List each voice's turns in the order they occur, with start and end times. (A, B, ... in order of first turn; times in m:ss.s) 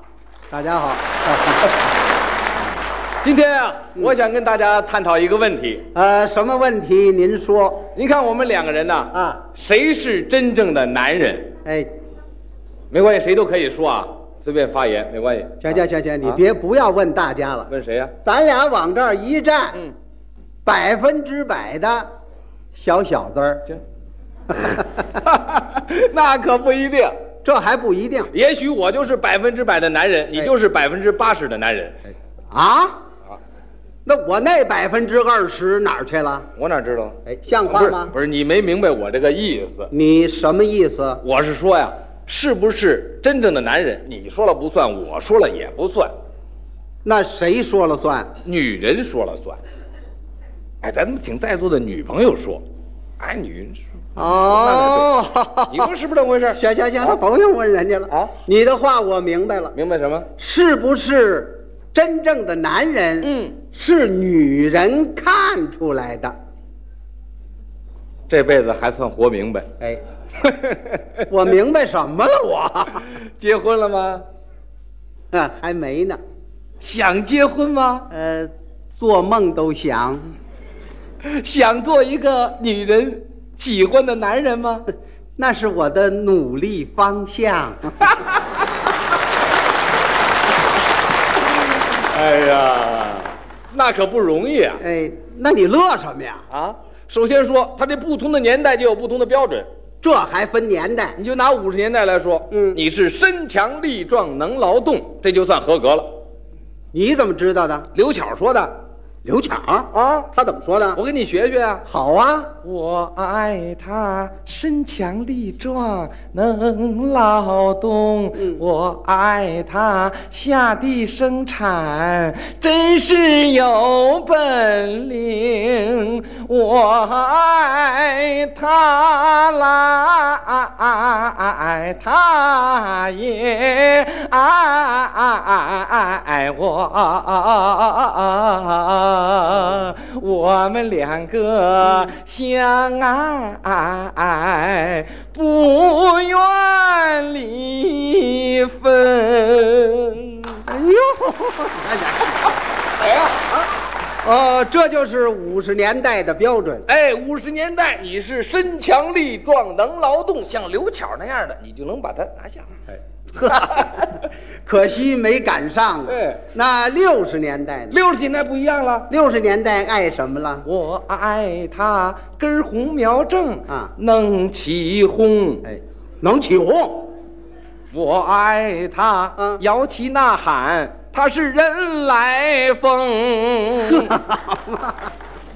0:00.5-0:01.6 A
0:03.2-0:05.9 B
0:05.9-0:07.9 A
0:08.0-0:11.5 B
0:09.1-0:09.4 A
0:12.9-0:16.4 B
0:15.6-0:17.7 A
0:17.7-0:18.1 B
0:18.2-0:19.8 A
0:20.6-0:22.1 A
0:22.8-0:23.6 A
0:25.2-0:27.2 B
0:27.4-0:28.3 A
0:28.3-0:32.0 B
0:32.5-0:32.9 A
0:34.1-0:36.5 A
0:36.6-0:39.9 B
0:37.3-0:38.1 A
0:39.9-0:41.2 A
0:41.2-0:46.1 B
0:47.0-0:48.3 A
0:48.4-0:49.6 B
0:50.8-0:52.6 B
0:53.2-0:55.1 B
0:54.2-0:55.9 A
0:55.7-0:57.2 B
0:56.5-0:59.7 A
0:59.7-1:00.3 B
1:00.4-1:06.3 A
1:03.2-1:03.6 B
1:08.3-1:09.7 B
1:10.4-1:11.2 B
1:11.3-1:13.0 A
1:13.1-1:14.2 B
1:15.3-1:16.2 A
1:16.8-1:18.1 B
1:18.1-1:20.3 A
1:21.2-1:24.9 B
1:25.4-1:28.1 A
1:32.0-1:34.8 B
1:34.8-1:36.4 A
1:36.5-1:39.7 B
1:40.0-1:41.2 A
1:41.2-1:46.1 B
1:42.5-1:42.8 A
1:46.9-1:47.9 A
1:47.9-1:48.8 B
1:49.2-1:51.0 A
1:49.9-1:50.3 B
1:51.0-1:51.8 B
1:51.9-1:52.5 A
1:52.6-2:30.6 B
2:30.7-2:32.4 A
2:33.0-2:33.6 B
2:34.2-2:36.9 A
2:36.9-2:42.7 B
2:43.4-2:43.9 A
2:43.4-2:44.2 B
2:44.7-2:47.9 A
2:46.1-2:46.4 B
2:47.9-2:49.1 B
2:49.1-2:50.6 A
2:50.6-2:55.6 B
2:55.6-2:57.1 A
2:57.9-3:04.2 B
3:03.8-3:05.0 A